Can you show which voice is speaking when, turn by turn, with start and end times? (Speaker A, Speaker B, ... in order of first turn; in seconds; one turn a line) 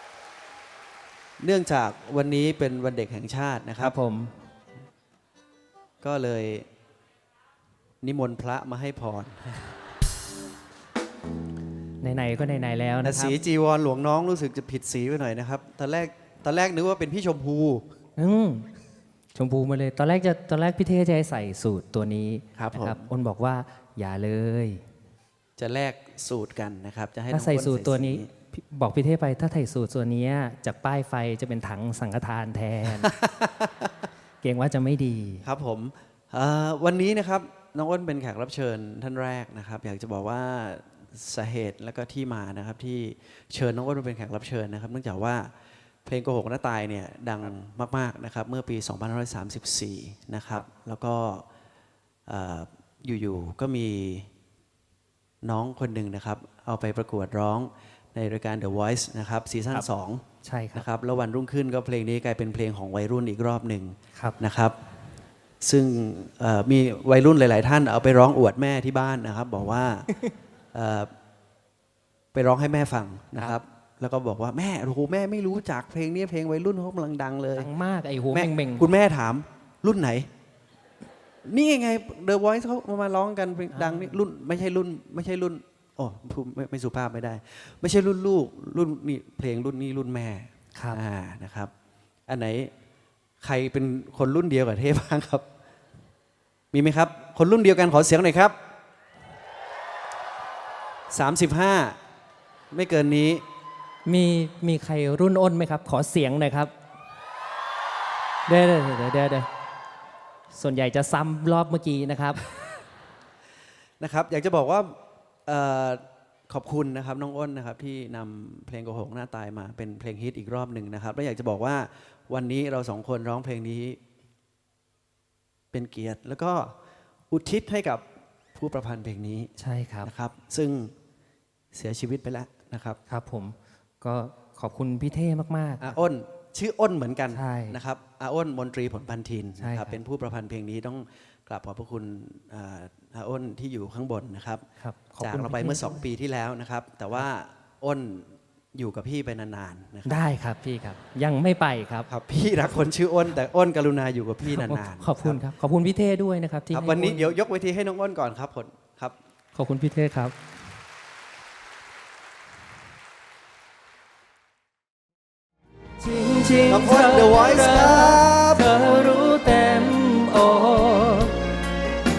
Speaker A: 1.4-4.0
Speaker B: 3.8-4.3
Speaker A: 6.0-6.7
Speaker A: 8.0-9.8
Speaker B: 12.0-13.4
Speaker A: 13.0-17.8
Speaker B: 18.2-18.7
Speaker B: 19.3-24.8
Speaker A: 22.6-23.1
Speaker A: 25.6-28.3
Speaker B: 27.3-33.1
Speaker A: 33.0-33.5
Speaker B: 34.4-35.4
Speaker A: 35.4-45.5
Speaker A: 46.0-51.5
Speaker A: 52.3-54.3
Speaker A: 55.4-64.7
Speaker B: 60.4-60.9
Speaker A: 65.6-70.1
Speaker A: 70.7-71.1
Speaker A: 72.3-77.7
Speaker B: 77.5-78.9
Speaker A: 78.3-80.3
Speaker A: 81.5-91.7
Speaker B: 83.8-84.1
Speaker B: 90.7-91.0
Speaker A: 92.3-92.7
Speaker A: 93.4-95.4
Speaker A: 96.7-98.5
Speaker A: 101.1-102.0
Speaker A: 102.7-103.4
Speaker B: 104.0-106.7
Speaker B: 108.5-109.5
Speaker B: 110.5-112.4
Speaker A: 114.0-124.0
Speaker A: 125.7-126.7
Speaker A: 127.3-128.0
Speaker A: 128.5-129.5
Speaker B: 129.6-130.1
Speaker A: 130.0-130.9
Speaker A: 131.7-133.0
Speaker B: 133.1-135.9
Speaker A: 135.8-144.6
Speaker B: 137.3-137.8
Speaker B: 139.6-139.9
Speaker B: 144.8-146.0
Speaker A: 145.2-150.2
Speaker B: 150.1-152.1
Speaker A: 152.1-155.4
Speaker B: 154.5-157.3
Speaker A: 156.7-159.2
Speaker B: 159.5-160.3
Speaker B: 166.0-171.4
Speaker A: 166.7-168.6